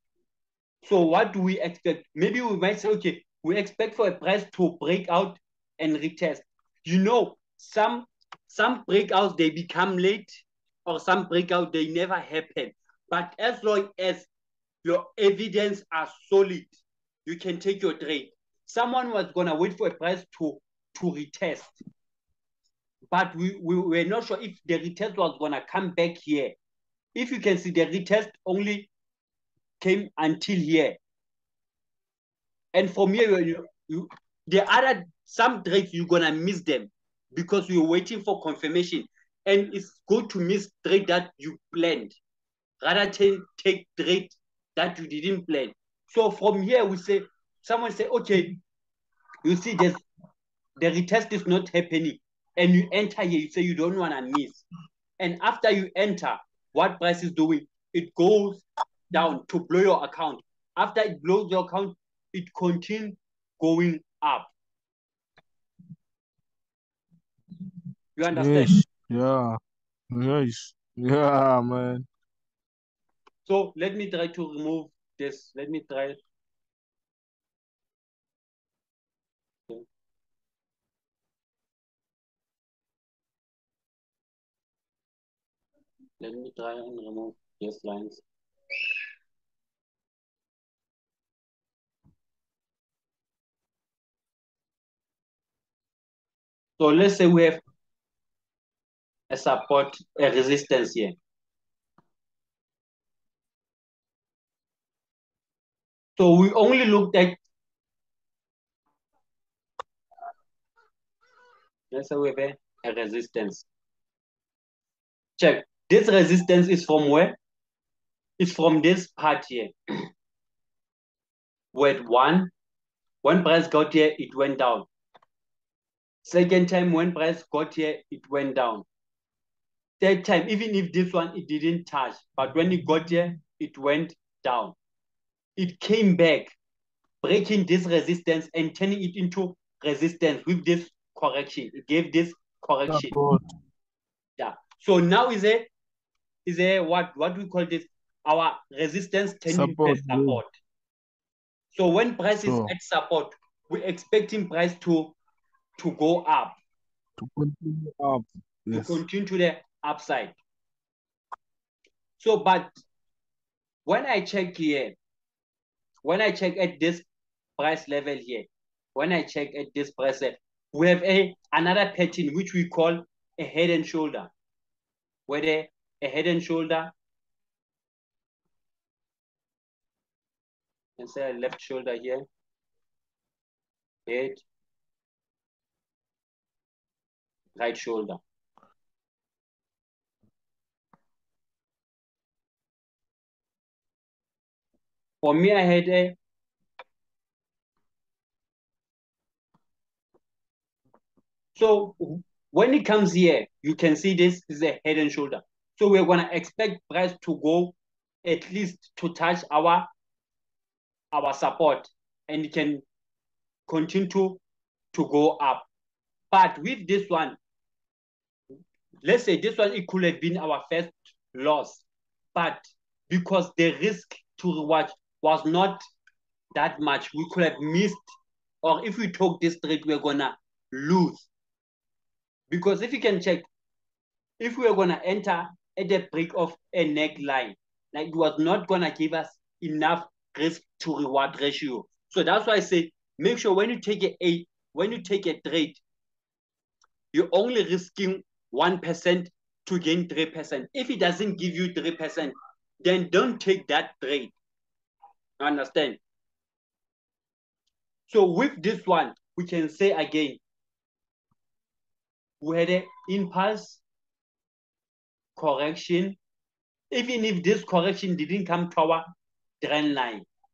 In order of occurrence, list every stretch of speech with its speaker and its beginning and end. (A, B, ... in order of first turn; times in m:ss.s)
0:00.8-0:14.3 A
0:14.8-0:21.8 A
0:23.1-0:26.6 A
0:27.1-0:28.9 A
0:29.8-0:31.0 A
0:32.7-0:42.2 A
0:42.8-0:48.6 A
0:49.4-0:50.0 A
0:50.8-0:54.6 A
0:55.2-1:04.5 A
1:08.2-1:08.8 A
1:08.3-1:09.6 B
1:10.1-1:12.0 B
1:13.4-1:16.2 A
1:26.2-1:28.2 A
1:36.8-1:37.6 A
1:39.3-1:41.1 A
1:46.2-1:47.4 A
1:51.9-1:53.7 A
1:55.4-1:57.4 A
1:58.4-2:00.0 A
2:01.7-2:02.5 A
2:03.2-2:04.9 A
2:06.2-2:08.8 A
2:10.0-2:14.8 A
2:15.6-2:16.5 A
2:17.2-2:23.1 A
2:22.9-2:23.4 B
2:24.4-2:25.7 A
2:26.4-2:30.5 A
2:29.5-2:30.4 B
2:31.7-2:35.2 A
2:32.4-2:32.7 B
2:35.8-2:36.6 A
2:37.2-2:39.0 B
2:38.7-2:40.3 A
2:42.2-2:42.7 A
2:43.8-2:45.0 A
2:46.0-2:47.0 A
2:47.6-2:54.3 A
2:55.3-2:56.9 A
3:01.0-3:02.2 A
3:04.1-3:04.4 A
3:07.6-3:08.2 A
3:15.2-3:16.2 A
3:21.5-3:29.9 A
3:31.1-3:32.8 A
3:33.7-3:34.4 A
3:34.9-3:35.7 A
3:36.3-3:37.4 A
3:39.0-3:45.8 A
3:46.5-3:48.0 A
3:48.6-3:51.3 A
3:52.5-3:53.5 A
3:54.4-4:05.8 A
4:07.1-4:14.3 A
4:15.4-4:16.0 A
4:18.1-4:20.4 A
4:22.4-4:23.8 A
4:25.4-4:26.2 A
4:26.9-4:29.1 A
4:29.6-4:30.2 A